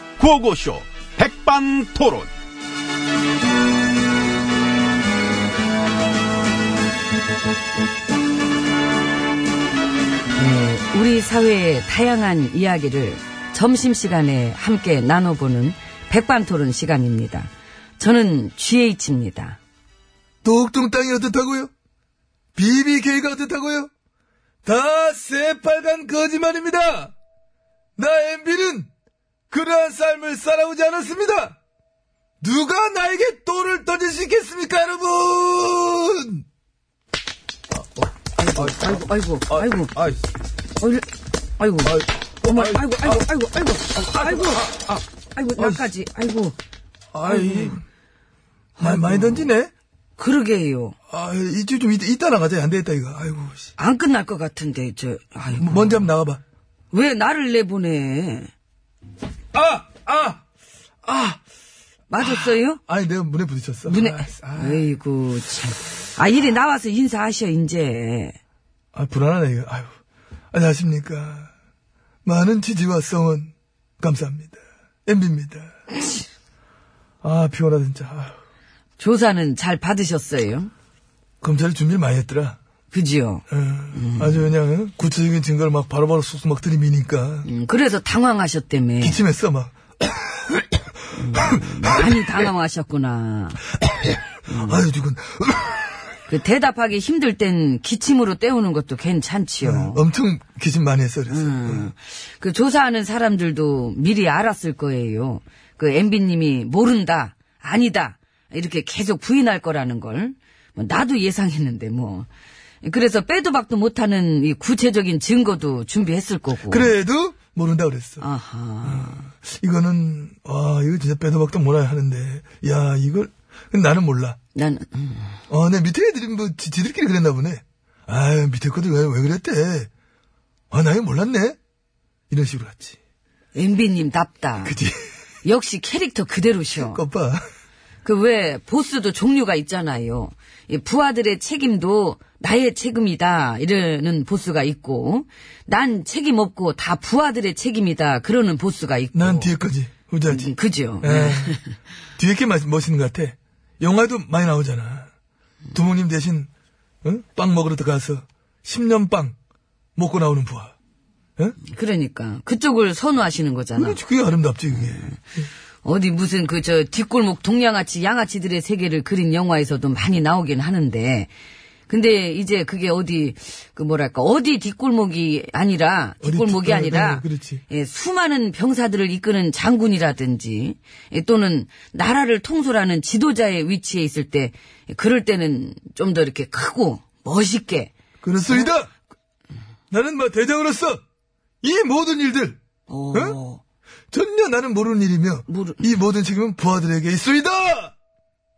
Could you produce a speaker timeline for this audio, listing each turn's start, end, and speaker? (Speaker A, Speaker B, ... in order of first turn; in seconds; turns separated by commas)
Speaker A: 0.2-2.3, Speaker B: 10.3-19.6, Speaker C: 20.4-21.7, Speaker C: 22.6-23.9, Speaker C: 24.6-27.1, Speaker C: 28.0-28.9, Speaker C: 29.5-31.6, Speaker C: 32.4-36.4, Speaker B: 38.4-39.9, Speaker B: 40.8-44.7, Speaker C: 44.5-44.9, Speaker B: 45.3-46.6, Speaker C: 47.1-47.8, Speaker B: 47.2-47.8, Speaker B: 48.8-49.5, Speaker C: 48.8-49.7, Speaker B: 50.2-51.0, Speaker C: 51.1-53.7, Speaker B: 53.8-56.1, Speaker C: 55.5-56.4, Speaker B: 56.9-58.5, Speaker C: 59.5-60.4, Speaker C: 61.0-61.4, Speaker B: 62.1-62.8, Speaker C: 62.2-64.8, Speaker B: 63.9-68.4, Speaker C: 68.9-69.9, Speaker C: 70.5-71.5, Speaker C: 72.2-75.8, Speaker C: 77.2-78.3, Speaker B: 79.0-80.7, Speaker C: 81.4-82.6, Speaker B: 82.9-84.5, Speaker C: 83.5-87.5, Speaker B: 87.4-89.2, Speaker C: 89.0-92.1, Speaker B: 91.2-93.6, Speaker B: 94.5-94.8, Speaker C: 94.5-96.0, Speaker B: 96.3-100.0, Speaker C: 99.6-101.9, Speaker B: 101.3-112.3, Speaker B: 112.8-116.9, Speaker C: 116.7-118.2, Speaker B: 118.2-119.3, Speaker C: 118.8-124.4, Speaker B: 124.5-125.4, Speaker C: 125.5-129.9, Speaker C: 130.7-131.6, Speaker C: 132.3-133.0, Speaker B: 133.5-134.8, Speaker C: 134.6-135.0, Speaker B: 135.4-137.0, Speaker C: 136.8-137.4, Speaker B: 138.0-149.6, Speaker C: 149.1-151.6, Speaker B: 150.3-151.7, Speaker C: 152.2-155.1, Speaker C: 155.7-156.5, Speaker C: 157.0-159.3, Speaker C: 159.9-160.7, Speaker B: 161.6-164.0, Speaker C: 163.8-165.1, Speaker B: 165.8-171.3, Speaker B: 171.9-187.9, Speaker C: 176.2-177.6, Speaker C: 188.2-188.9, Speaker C: 189.9-191.0, Speaker C: 191.6-192.6, Speaker B: 192.9-193.6, Speaker C: 193.1-193.4, Speaker C: 194.1-197.9, Speaker B: 195.5-195.8